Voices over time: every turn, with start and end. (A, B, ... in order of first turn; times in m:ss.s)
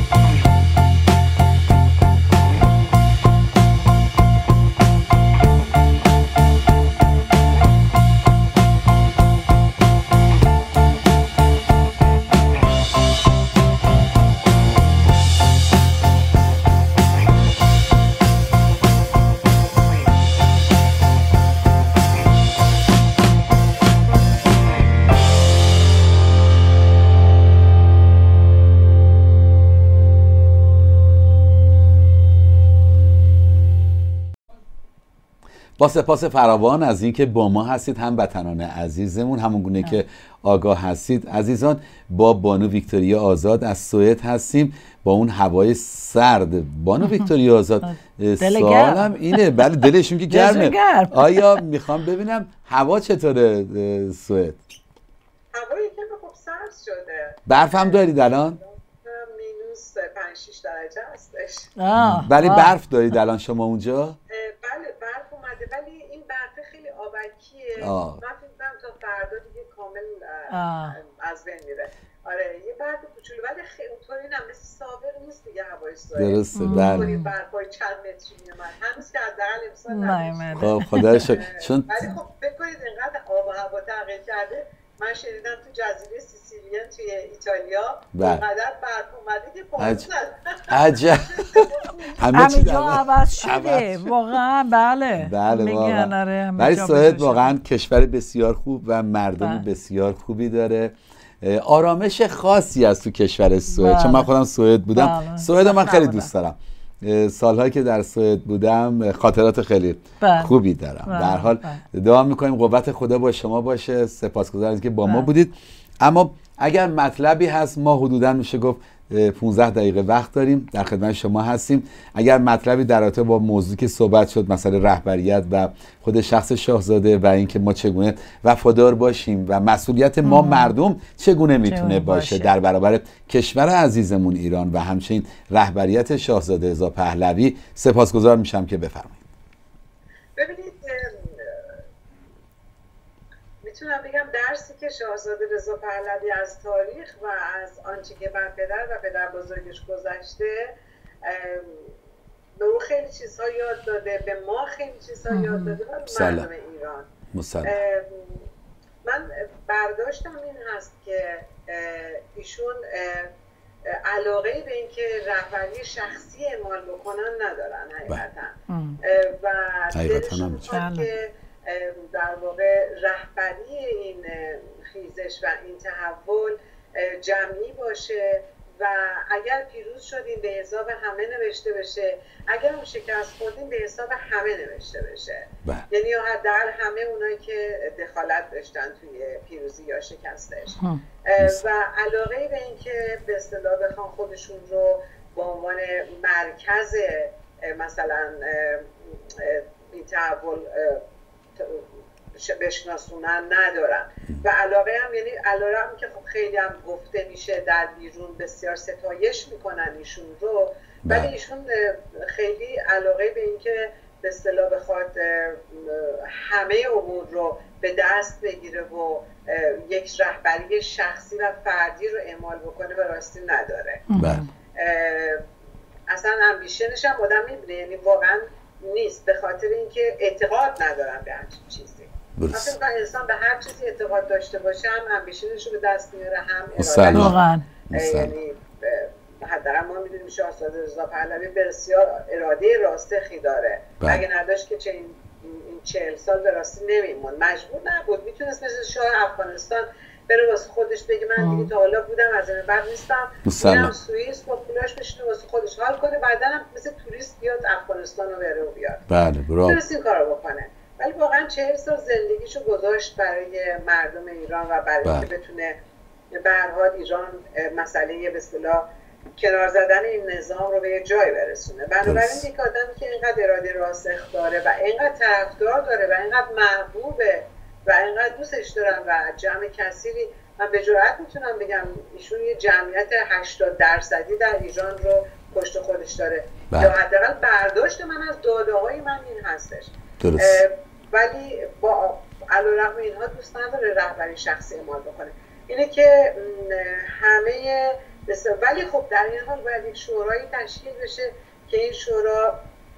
0:35.8-0:54.6 A
0:47.0-0:47.3 B
0:47.8-0:51.6 B
0:55.5-1:01.7 C
0:57.5-0:58.6 A
1:01.8-1:02.7 B
1:02.0-1:04.2 A
1:04.3-1:32.4 C
1:07.8-1:08.2 A
1:10.5-1:11.0 B
1:16.1-1:17.1 A
1:16.6-1:17.3 B
1:19.9-1:21.2 B
1:20.6-1:22.0 A
1:28.1-1:28.4 A
1:29.8-1:30.1 A
1:30.7-1:34.2 A
1:32.3-1:37.5 B
1:35.2-2:19.2 A
1:39.4-1:39.6 B
1:43.7-1:44.3 B
1:44.9-1:46.3 B
1:50.2-1:50.5 B
1:51.0-1:51.8 B
1:55.0-1:55.3 B
2:10.2-2:10.7 B
2:11.7-2:12.5 B
2:20.4-2:21.7 C
2:23.6-2:30.7 C
2:31.2-2:31.9 C
2:32.6-2:37.1 C
2:35.3-2:35.8 B
2:36.0-2:36.5 A
2:37.3-2:37.8 A
2:37.6-2:38.4 C
2:39.0-2:43.3 C
2:43.9-3:10.8 C
2:48.7-2:49.0 B
2:49.9-2:50.7 A
2:50.7-2:51.1 B
3:11.3-3:21.0 C
3:11.4-3:11.6 A
3:21.6-3:44.0 C
3:31.0-3:31.3 A
3:44.1-3:44.5 B
3:44.1-3:44.4 A
3:44.8-3:45.4 C
3:46.1-3:57.4 C
3:52.4-3:52.8 A
3:56.8-3:57.4 A
3:57.1-3:57.6 B
3:57.9-3:58.3 A
3:57.9-4:19.0 C
4:11.4-4:11.7 B
4:13.4-4:13.9 A
4:19.1-4:19.8 A
4:19.6-4:25.8 C
4:25.0-4:25.3 A
4:26.4-4:28.8 C
4:29.4-5:02.6 C
4:32.0-4:32.4 A
4:46.7-4:47.0 A
4:50.2-4:50.6 A